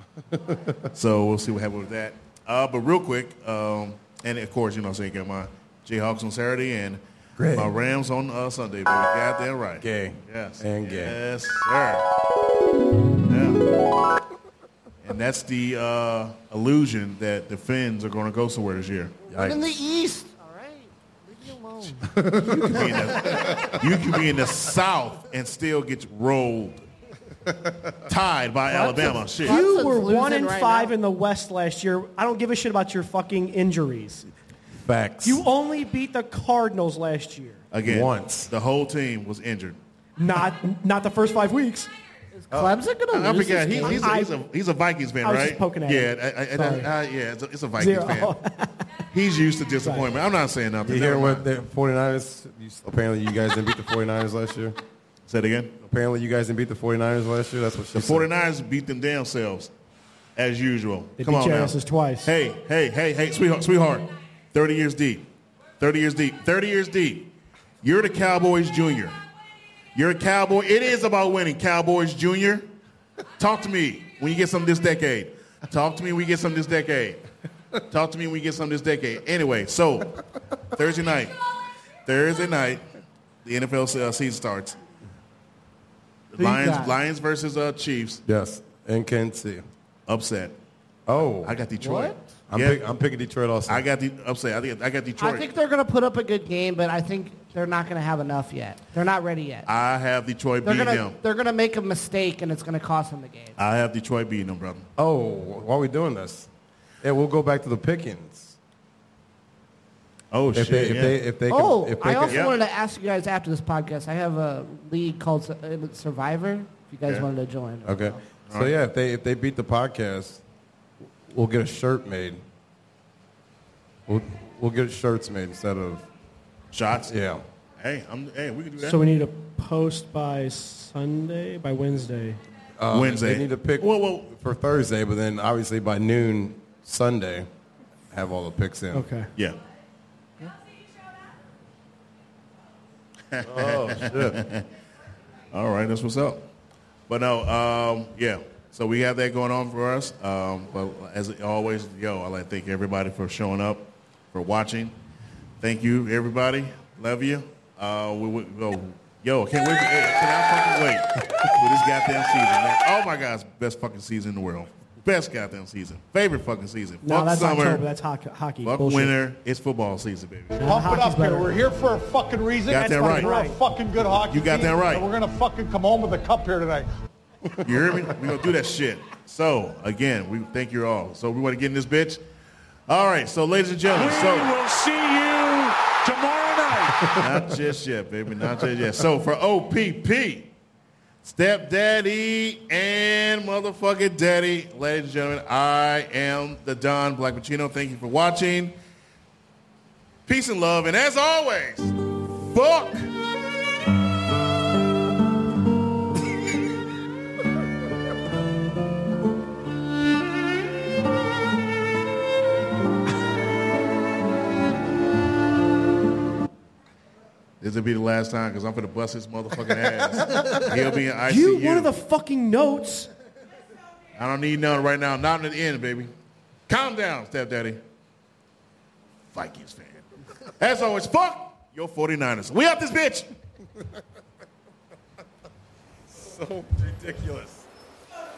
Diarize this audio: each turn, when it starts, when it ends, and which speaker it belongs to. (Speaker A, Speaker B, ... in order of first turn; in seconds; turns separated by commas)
Speaker A: 0.3-0.9, Speaker B: 0.9-7.0, Speaker A: 7.4-7.7, Speaker B: 7.5-12.1, Speaker A: 9.8-11.2, Speaker B: 13.3-13.6, Speaker B: 15.0-19.1, Speaker C: 19.3-23.7, Speaker A: 19.3-19.6, Speaker A: 22.1-23.8, Speaker B: 22.6-26.9, Speaker B: 28.1-29.6, Speaker D: 28.7-34.3, Speaker C: 29.4-30.9, Speaker A: 34.9-35.4, Speaker D: 35.2-37.6, Speaker B: 37.7-39.8, Speaker A: 37.9-38.5, Speaker D: 40.2-41.9, Speaker C: 42.4-44.1, Speaker A: 42.5-42.8, Speaker B: 43.1-48.4, Speaker D: 43.8-44.4, Speaker D: 45.2-46.9, Speaker D: 47.8-48.8, Speaker B: 49.1-51.5, Speaker D: 49.8-50.1, Speaker A: 50.8-54.8, Speaker B: 55.3-55.8, Speaker A: 55.8-58.3, Speaker B: 57.9-59.7, Speaker B: 60.4-65.3, Speaker D: 61.2-62.3, Speaker B: 65.8-69.2, Speaker B: 70.0-72.7, Speaker B: 73.4-77.2, Speaker B: 77.8-81.4, Speaker B: 82.1-82.8, Speaker B: 83.4-84.8, Speaker B: 86.3-88.2, Speaker C: 86.4-87.0, Speaker A: 88.3-89.6, Speaker B: 90.1-90.5, Speaker A: 91.1-91.6, Speaker B: 91.4-92.8, Speaker C: 91.8-92.2, Speaker A: 92.5-93.8, Speaker B: 93.7-95.5, Speaker C: 95.2-99.7, Speaker B: 99.7-101.2, Speaker C: 100.6-103.6, Speaker B: 103.6-104.8, Speaker A: 105.0-106.5, Speaker A: 107.0-108.6, Speaker B: 110.3-111.2, Speaker A: 110.5-112.5, Speaker C: 111.5-118.2, Speaker B: 112.3-112.6, Speaker A: 117.8-120.4, Speaker A: 121.3-122.4, Speaker A: 124.1-126.1, Speaker B: 126.7-127.1, Speaker A: 127.1-127.4, Speaker B: 127.8-129.0, Speaker D: 128.8-132.4, Speaker A: 132.8-137.5, Speaker B: 132.9-134.3, Speaker A: 138.1-139.1, Speaker D: 138.9-139.3, Speaker B: 143.3-144.7, Speaker A: 143.4-144.4, Speaker B: 145.5-146.4, Speaker B: 147.1-154.9, Speaker B: 155.6-167.8, Speaker D: 167.0-169.1, Speaker B: 168.6-170.6, Speaker D: 170.6-171.6, Speaker E: 170.6-176.9, Speaker B: 172.7-173.3, Speaker D: 172.8-173.6, Speaker B: 174.3-175.1, Speaker B: 177.6-182.2, Speaker B: 182.9-184.6, Speaker F: 183.9-187.0, Speaker A: 187.0-187.4, Speaker B: 187.1-190.5, Speaker B: 191.2-198.8, Speaker B: 200.3-203.1, Speaker B: 217.6-221.9, Speaker D: 221.2-223.1, Speaker B: 224.2-226.1, Speaker B: 226.7-227.8, Speaker B: 229.3-230.1, Speaker B: 230.6-233.3, Speaker A: 236.1-237.7